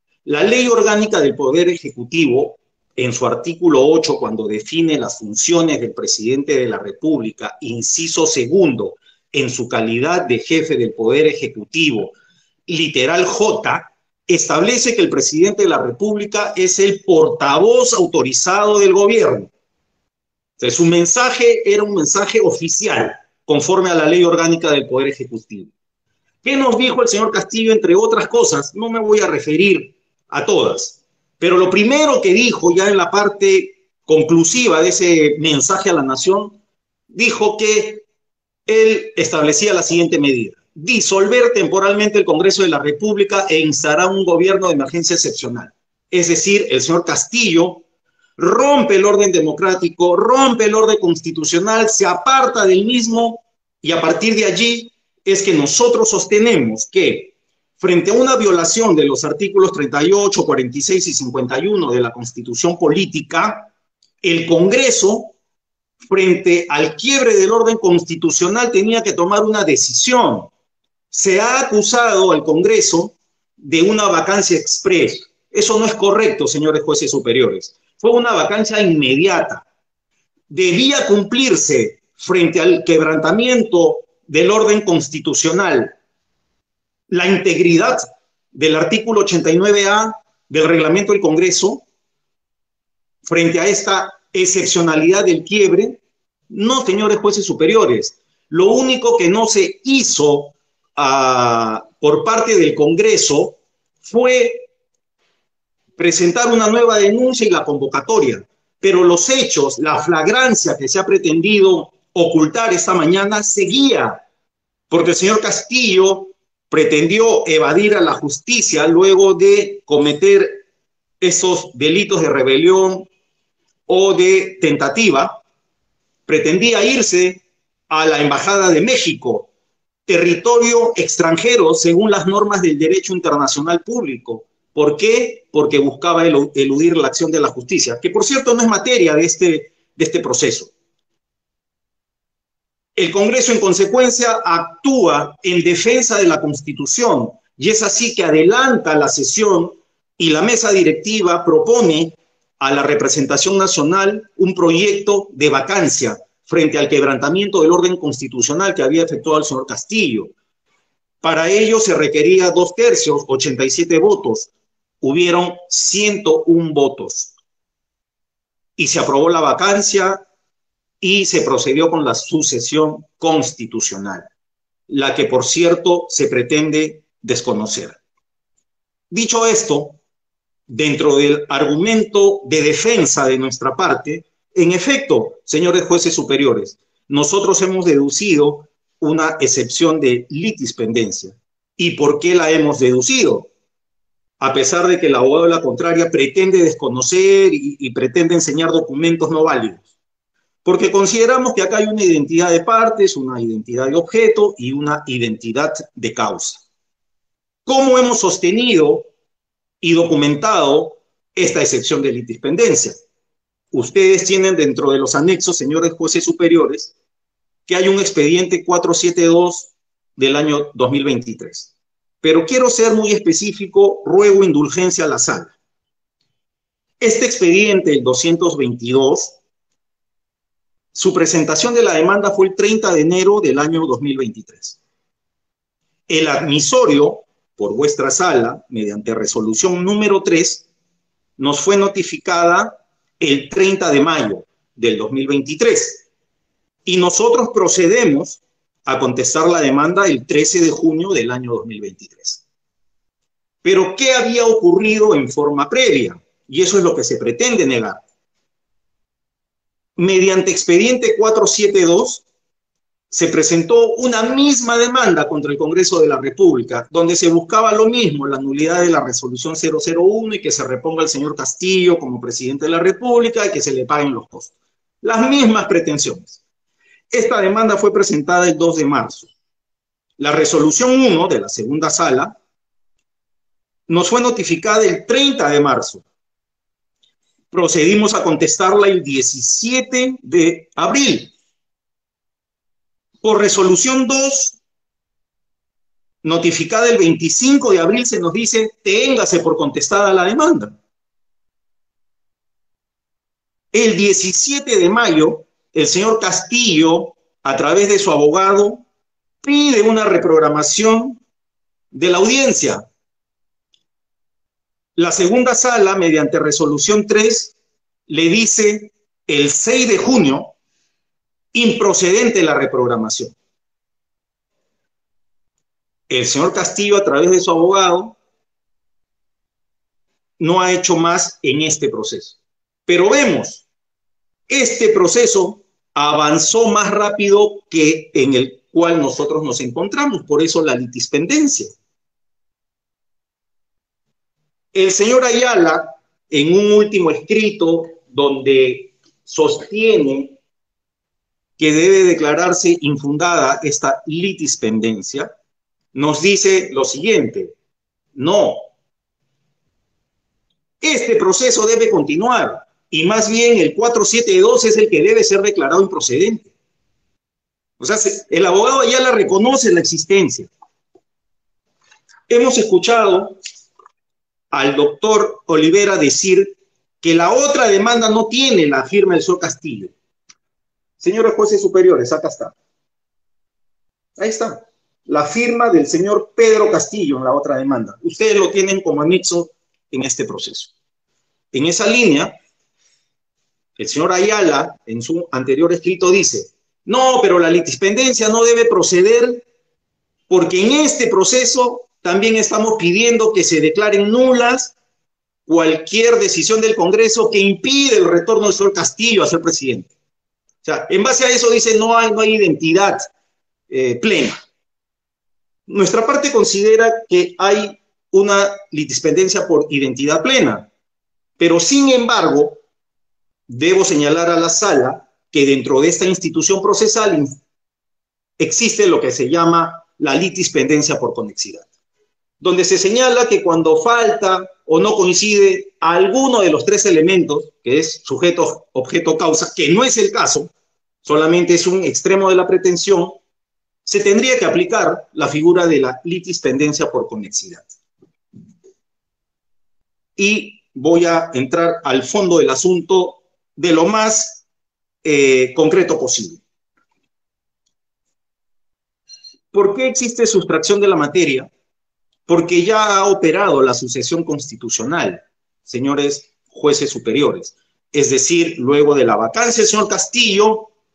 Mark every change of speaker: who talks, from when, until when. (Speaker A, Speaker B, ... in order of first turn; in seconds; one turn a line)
Speaker A: 0.2-12.1
Speaker A: 12.7-19.5
Speaker A: 20.6-25.7
Speaker A: 26.4-36.6
Speaker A: 37.1-38.0
Speaker A: 38.7-47.8
Speaker A: 48.4-63.7
Speaker A: 64.2-65.3
Speaker A: 66.0-70.5
Speaker A: 71.1-79.6
Speaker A: 80.5-85.9
Speaker A: 87.1-91.8
Speaker A: 93.2-96.0
Speaker A: 96.5-104.7
Speaker A: 106.0-114.2
Speaker A: 114.9-120.6
Speaker A: 121.2-123.1
Speaker A: 123.9-125.4
Speaker A: 126.3-129.5
Speaker A: 130.1-140.7
Speaker A: 142.9-160.3
Speaker A: 161.2-164.5
Speaker A: 165.0-167.3
Speaker A: 168.8-170.2
Speaker A: 171.0-174.2
Speaker A: 174.9-178.0
Speaker A: 179.1-180.0
Speaker A: 180.7-193.5
Speaker A: 194.4-199.8
Speaker A: 200.6-206.6
Speaker A: 207.7-209.1
Speaker A: 209.8-213.0
Speaker A: 213.7-216.9
Speaker A: 217.7-221.7
Speaker A: 222.2-225.6
Speaker A: 227.0-229.3
Speaker A: 230.9-234.8
Speaker A: 236.1-240.7
Speaker A: 241.4-246.1
Speaker A: 246.9-252.4
Speaker A: 253.6-258.0
Speaker A: 260.0-262.2
Speaker A: 263.1-276.4
Speaker A: 277.1-279.3
Speaker A: 280.2-282.4
Speaker A: 283.9-286.0
Speaker A: 287.5-291.3
Speaker A: 293.2-294.6
Speaker A: 296.2-300.8
Speaker A: 303.7-308.8
Speaker A: 309.4-311.2
Speaker A: 311.9-312.8
Speaker A: 314.9-317.5
Speaker A: 318.1-320.5
Speaker A: 321.5-323.4
Speaker A: 326.1-328.2
Speaker A: 330.4-333.6
Speaker A: 334.5-341.7
Speaker A: 344.7-350.4
Speaker A: 351.6-355.3
Speaker A: 355.9-357.5
Speaker A: 358.1-358.6
Speaker A: 360.8-366.5
Speaker A: 367.8-370.5
Speaker A: 372.3-373.4
Speaker A: 374.5-379.9
Speaker A: 381.0-382.5
Speaker A: 384.2-390.7
Speaker A: 391.5-392.4
Speaker A: 393.8-399.4
Speaker A: 400.3-404.8
Speaker A: 405.5-409.9
Speaker A: 410.6-413.1
Speaker A: 413.7-414.4
Speaker A: 415.7-420.7
Speaker A: 421.4-422.6
Speaker A: 423.5-427.4
Speaker A: 428.4-431.7
Speaker A: 432.4-440.5
Speaker A: 441.0-443.2
Speaker A: 443.9-447.7
Speaker A: 450.2-454.4
Speaker A: 455.0-456.4
Speaker A: 459.5-461.5
Speaker A: 462.3-470.7